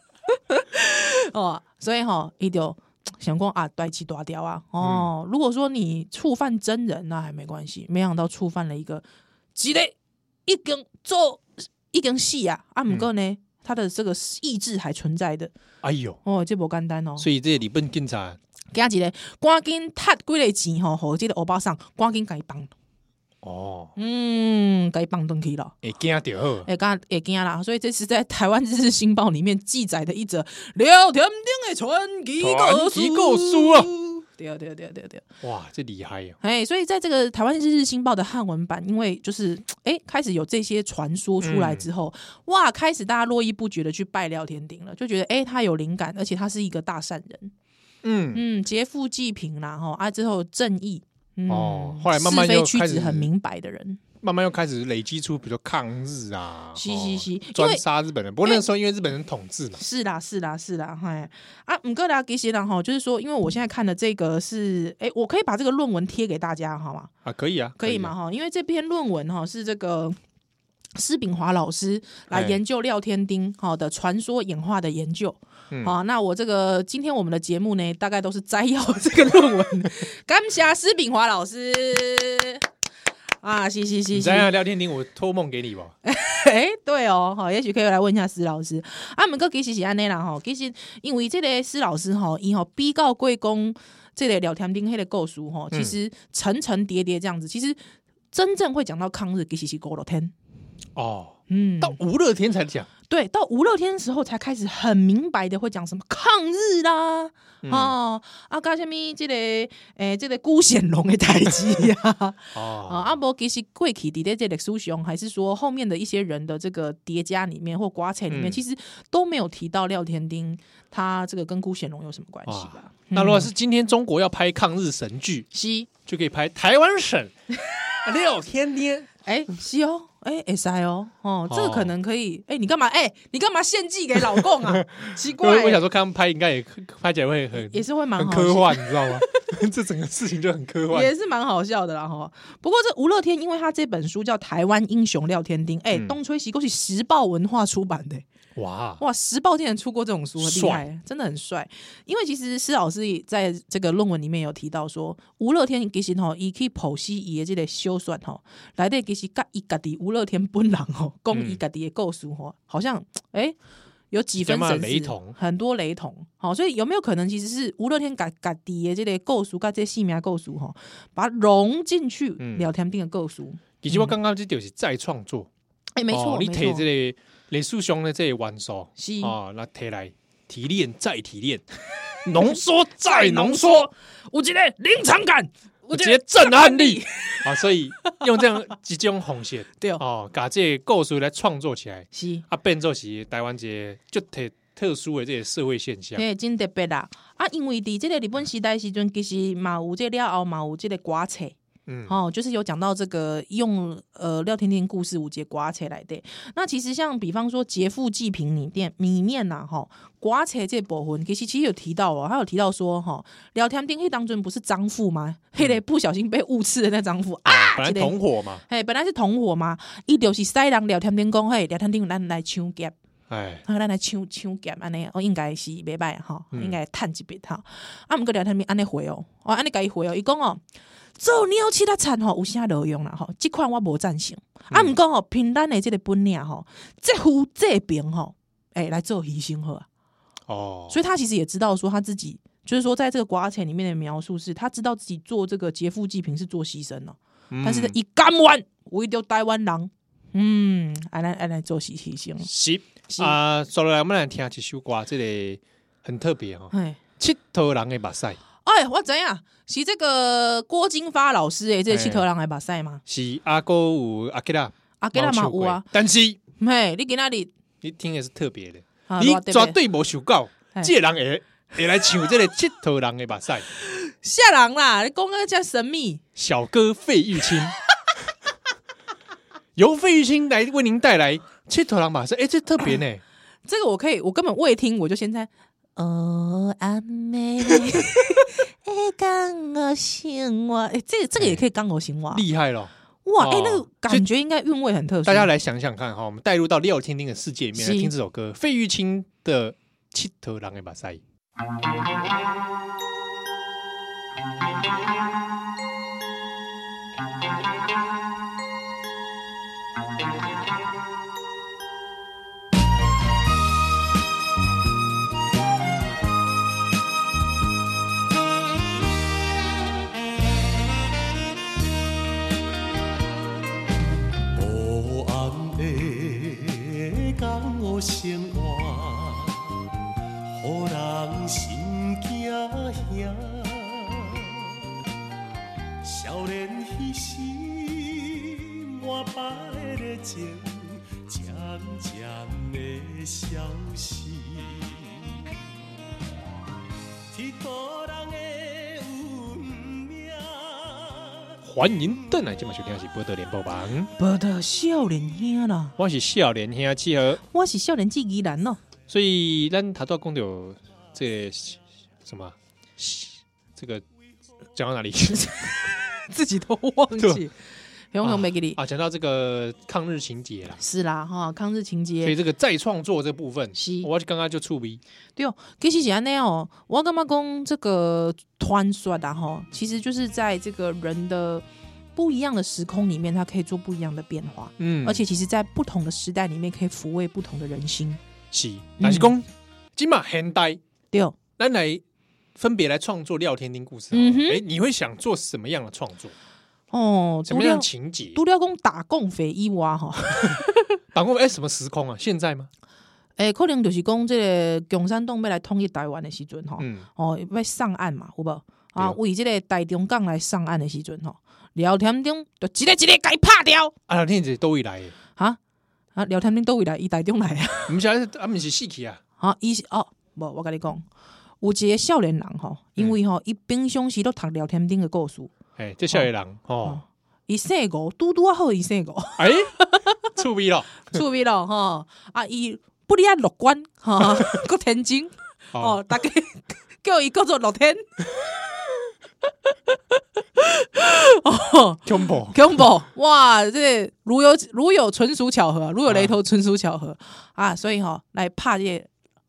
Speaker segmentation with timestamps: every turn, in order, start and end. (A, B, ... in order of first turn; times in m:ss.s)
0:00.3-0:09.0 A
0:04.8-0:05.1 B
0:09.6-0:15.5 A
0:15.8-0:16.2 B
0:16.2-0:17.3 A
0:17.2-0:18.4 B
0:18.7-0:22.7 A
0:23.4-0:23.9 B
0:24.0-0:25.8 A
0:25.8-0:26.7 B
0:26.7-0:35.2 A
0:32.4-0:33.9 B
0:35.4-0:36.4 B
0:36.4-0:47.5 A
0:41.4-0:41.9 B
0:48.0-0:48.4 B
0:48.3-0:54.0 A
0:51.5-0:53.3 B
0:54.2-0:59.8 B
0:56.8-0:57.8 A
0:59.8-1:07.1 A
1:07.2-1:08.1 B
1:07.8-1:10.2 A
1:11.0-1:22.6 A
1:12.3-1:12.6 B
1:15.7-1:16.0 B
1:23.4-1:24.5 A
1:24.1-1:25.9 B
1:26.0-1:37.8 A
1:38.3-1:40.3 A
1:41.0-1:42.9 B
1:41.5-1:42.0 A
1:43.1-2:03.5 A
1:47.6-1:48.0 B
1:52.5-1:53.2 B
1:58.3-1:58.6 B
2:02.5-2:05.5 B
2:05.5-2:05.9 A
2:06.1-2:07.3 B
2:08.0-2:09.1 B
2:09.3-2:15.8 A
2:11.5-2:11.9 B
2:14.4-2:21.1 B
2:17.6-2:19.2 A
2:20.9-2:28.2 A
2:28.6-2:29.0 B
2:29.0-2:43.6 A
2:30.4-2:30.8 B
2:41.3-2:41.6 B
2:44.1-2:54.1 A
2:44.4-2:45.4 B
2:52.4-2:52.7 B
2:53.8-2:55.5 B
2:56.0-2:56.9 A
2:56.1-3:01.6 B
2:59.0-2:59.4 A
3:02.2-3:03.9 B
3:02.4-3:07.5 A
3:05.9-3:16.2 B
3:12.1-3:12.4 A
3:16.2-3:21.6 A
3:21.9-3:22.2 B
3:22.1-3:43.0 A
3:37.5-3:38.6 B
3:43.3-3:43.6 B
3:43.6-3:50.6 A
3:46.5-3:46.8 B
3:51.2-3:59.9 A
4:00.5-4:01.0 B
4:00.9-4:12.5 A
4:07.5-4:08.0 B
4:12.4-4:18.4 B
4:13.1-4:13.4 A
4:16.7-4:17.0 A
4:18.6-4:23.0 A
4:21.9-4:22.3 B
4:23.1-4:26.4 B
4:25.0-4:25.9 A
4:26.6-4:27.5 A
4:27.8-4:33.7 B
4:29.1-4:29.8 A
4:33.9-4:36.2 A
4:36.4-4:37.8 B
4:39.8-4:43.2 B
4:43.7-4:52.4 A
4:51.4-4:51.6 B
4:52.3-4:54.3 B
4:53.2-4:55.5 A
4:55.2-5:01.2 B
4:57.8-4:58.1 A
5:24.5-5:29.7 C
5:30.5-5:34.7 C
5:36.0-5:45.3 C
5:47.3-5:51.6 C
5:51.6-5:54.1 B
5:54.2-5:56.0 A
5:56.0-5:57.4 B
5:57.5-5:58.8 A
5:59.1-6:04.0 B
6:04.7-6:05.7 B
6:05.4-6:07.5 A
6:08.1-6:08.8 A
6:08.2-6:10.8 B
6:10.8-6:12.4 A
6:12.2-6:15.0 B
6:13.8-6:14.1 A
6:15.4-6:21.6 A
6:22.2-6:28.2 A
6:24.8-6:25.2 B
6:28.5-6:30.8 B
6:29.0-6:29.3 A
6:31.1-6:31.4 A
6:31.6-6:32.0 B
6:32.6-6:36.4 B
6:34.1-6:34.6 A
6:36.9-6:40.9 A
6:37.5-6:38.4 B
6:41.1-6:42.7 B
6:43.4-6:53.9 A
6:46.8-6:47.1 B
6:54.1-6:55.2 B
6:56.2-6:58.0 A
6:57.9-6:59.2 B
6:59.4-7:01.0 A
7:01.6-7:05.6 A
7:05.8-7:07.0 B
7:06.8-7:10.3 A
7:09.4-7:11.2 B
7:11.1-7:18.5 A
7:15.7-7:16.0 B
7:20.6-7:29.1 A
7:22.0-7:22.9 B
7:26.1-7:26.4 B